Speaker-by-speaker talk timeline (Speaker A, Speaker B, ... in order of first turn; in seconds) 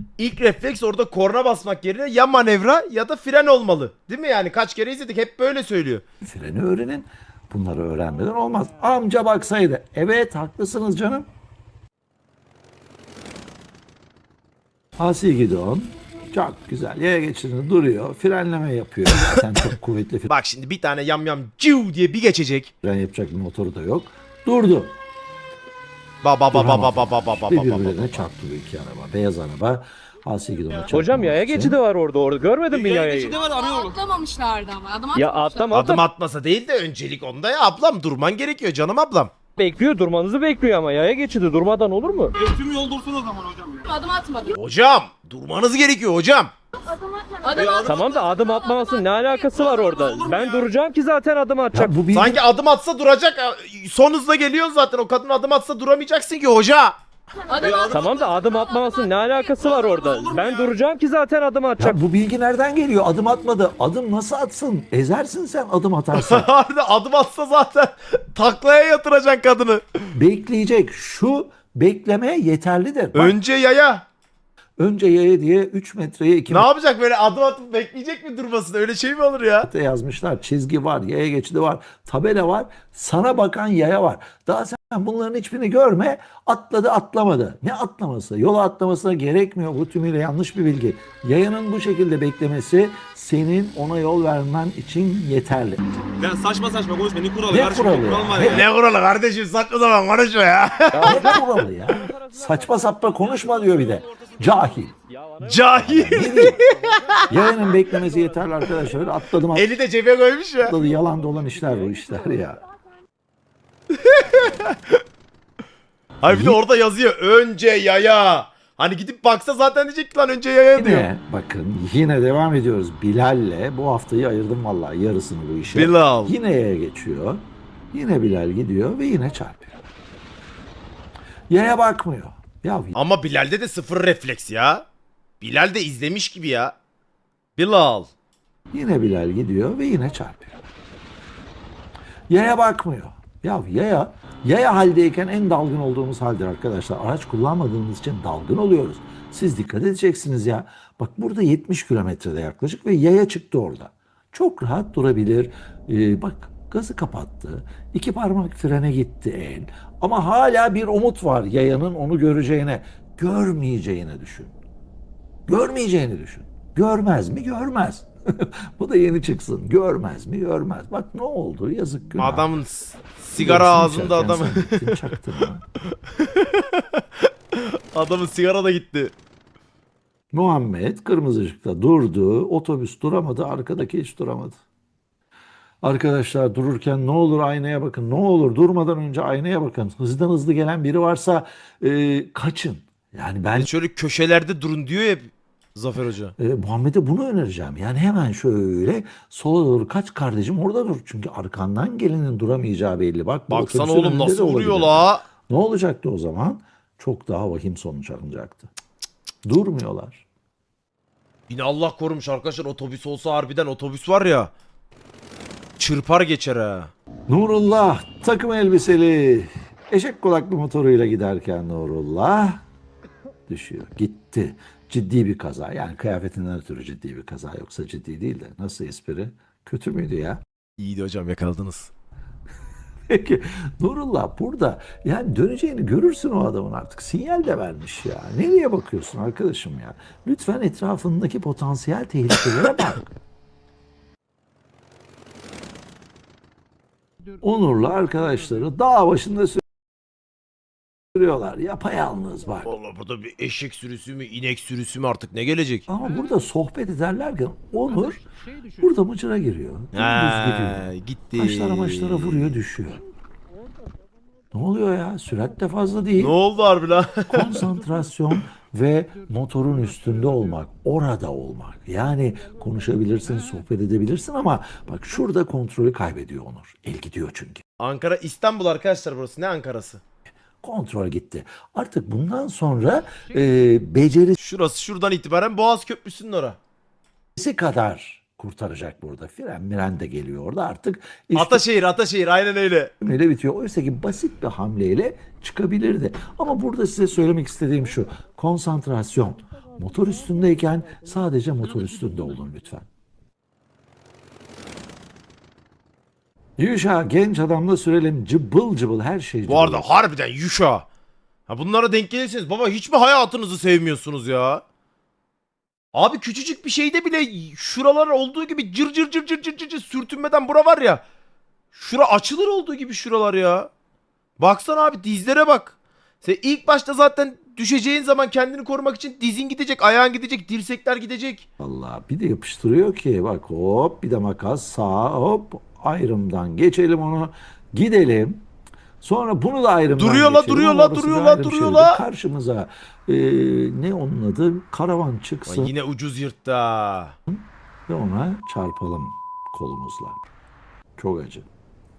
Speaker A: 0.2-6.0, 20.3-22.7, 26.2-28.3, 35.7-39.3, 44.5-46.5, 52.1-57.0, 66.1-70.1, 73.2-74.1, 76.5-79.7, 98.3-101.3, 105.4-107.2, 109.5-110.8, 113.9-115.0, 116.2-121.1, 125.7-126.3, 132.9-134.9, 135.4-136.8, 137.6-138.1, 172.2-175.2, 176.1-179.2, 193.6-196.3, 203.5-205.2, 211.5-214.5, 215.8-216.9, 230.8-231.9, 252.7-255.9, 259.9-262.6, 266.2-267.7, 277.8-280.0, 284.4-286.6, 291.4-292.9, 309.5-310.9, 311.5-314.6, 315.9-321.0, 321.7-323.7, 324.4-331.4, 340.0-342.0, 345.5-347.2
Speaker B: 6.2-11.3, 15.0-20.3, 22.8-25.0, 26.5-31.8, 51.7-52.4, 61.8-66.5, 70.1-73.4, 74.8-76.7, 79.6-95.8, 97.5-98.7, 101.0-104.9, 105.8-106.6, 107.3-109.7, 110.7-112.6, 116.3-116.6, 120.8-129.8, 131.5-132.9, 138.7-140.6, 142.3-164.6, 165.5-172.6, 173.4-175.7, 180.3-184.6, 185.8-193.7, 196.4-208.7, 209.4-210.3, 217.3-222.6, 223.5-230.4, 233.1-243.1, 247.4-249.6, 251.2-252.7, 255.9-258.3, 258.8-263.0, 264.5-266.4, 267.3-277.6, 280.6-284.4, 287.4-291.6, 293.0-302.9, 306.6-309.9, 331.6-338.5, 339.0-345.7, 347.3-350.2, 351.0-351.5
Speaker C: 30.9-33.4, 35.1-36.0, 39.6-42.4, 47.8-51.9, 57.9-62.0, 100.9-101.5, 102.0-102.6, 105.1-106.5, 107.1-107.4
Speaker D: 32.7-34.0, 42.4-44.0, 47.6-48.0, 49.6-50.7, 57.6-58.2, 59.6-60.7, 96.2-98.5
Speaker E: 33.5-35.2, 43.9-44.5, 47.1-47.6